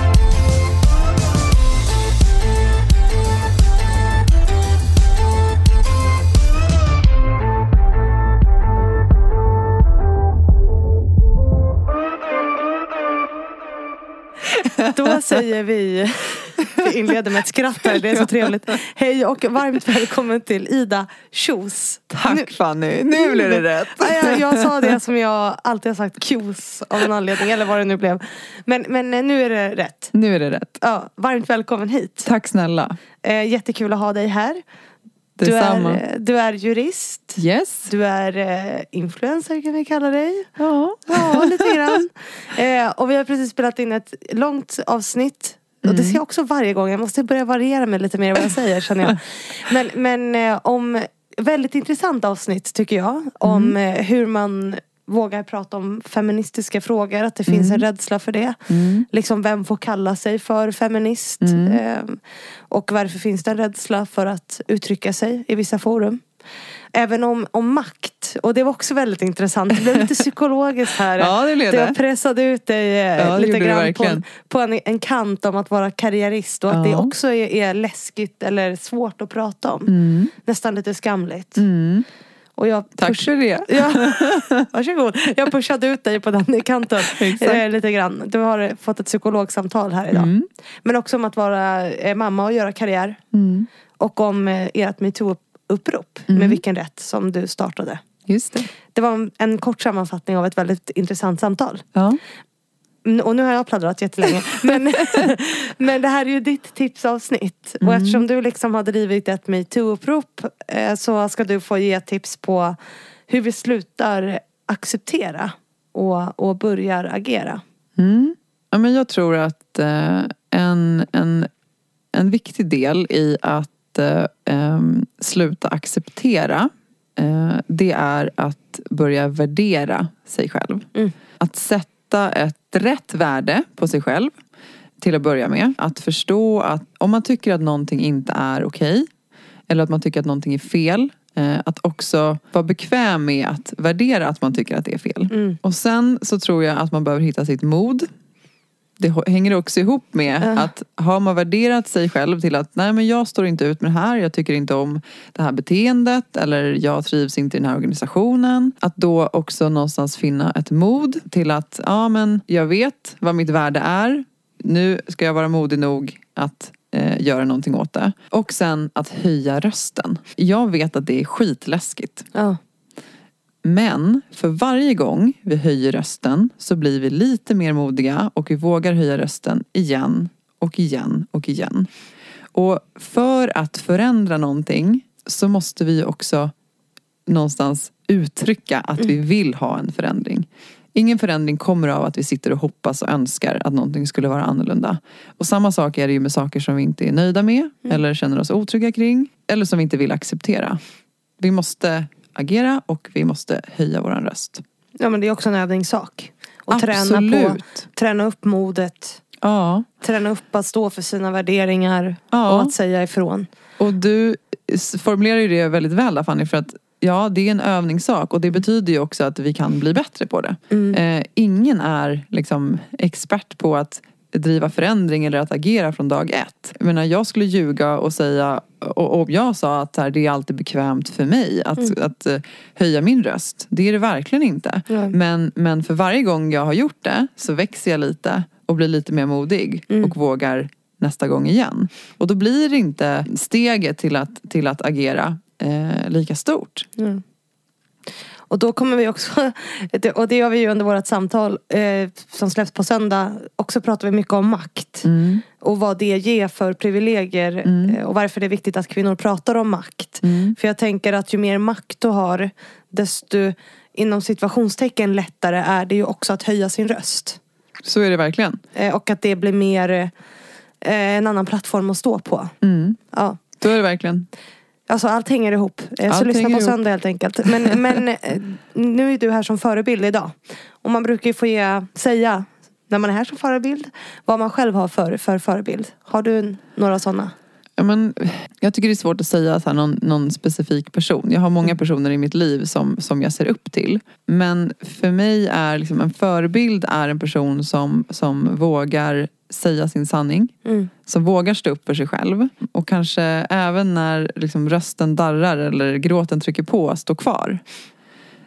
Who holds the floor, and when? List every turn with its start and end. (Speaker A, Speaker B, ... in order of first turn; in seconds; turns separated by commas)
Speaker A: 14.8-22.5, Speaker B: 22.1-24.9, Speaker A: 23.1-30.1, Speaker B: 30.1-30.7, Speaker A: 30.8-32.3, Speaker B: 32.2-32.9, Speaker A: 33.2-34.6, Speaker B: 35.4-36.0, Speaker A: 35.4-40.5, Speaker B: 37.4-37.9, Speaker B: 40.6-41.9, Speaker A: 41.1-66.2, Speaker B: 45.8-46.2, Speaker B: 53.4-53.8, Speaker B: 57.5-57.8, Speaker B: 58.7-59.1, Speaker B: 61.4-61.8, Speaker A: 66.9-79.9, Speaker B: 71.2-72.0, Speaker B: 73.2-74.2, Speaker B: 76.7-77.1, Speaker B: 79.9-80.3, Speaker A: 80.4-81.6, Speaker B: 81.6-82.1, Speaker A: 82.6-90.3, Speaker B: 83.0-84.7, Speaker B: 87.0-87.6, Speaker B: 90.1-90.5, Speaker A: 90.8-93.2, Speaker B: 93.3-93.7, Speaker A: 94.0-98.0, Speaker B: 96.3-96.6, Speaker B: 98.3-98.7, Speaker A: 98.9-101.8, Speaker B: 102.0-102.2, Speaker A: 103.0-112.8, Speaker B: 107.8-108.2, Speaker A: 113.3-117.6, Speaker B: 118.0-121.5, Speaker B: 122.1-130.9, Speaker B: 131.4-134.3, Speaker B: 135.0-139.1, Speaker B: 139.7-148.1, Speaker A: 145.3-145.6, Speaker B: 149.0-172.3, Speaker A: 150.4-150.7, Speaker B: 173.6-181.9, Speaker B: 182.5-186.5, Speaker B: 187.3-200.8, Speaker B: 201.4-204.6, Speaker A: 205.0-209.2, Speaker B: 206.7-207.7, Speaker B: 209.4-209.9, Speaker A: 210.0-213.5, Speaker B: 212.3-212.7, Speaker B: 213.8-246.9, Speaker A: 220.7-221.0, Speaker A: 234.9-235.2, Speaker A: 247.0-247.2, Speaker A: 248.5-255.1, Speaker B: 255.1-255.4, Speaker A: 255.6-267.4, Speaker B: 257.7-258.0, Speaker B: 260.2-260.6, Speaker B: 267.8-268.6, Speaker A: 268.8-270.1, Speaker A: 270.8-272.5, Speaker B: 272.6-273.0, Speaker A: 273.1-273.4, Speaker B: 273.6-274.3, Speaker A: 274.9-287.3, Speaker B: 276.1-276.8, Speaker B: 287.8-300.5, Speaker A: 300.6-300.9, Speaker B: 301.1-307.6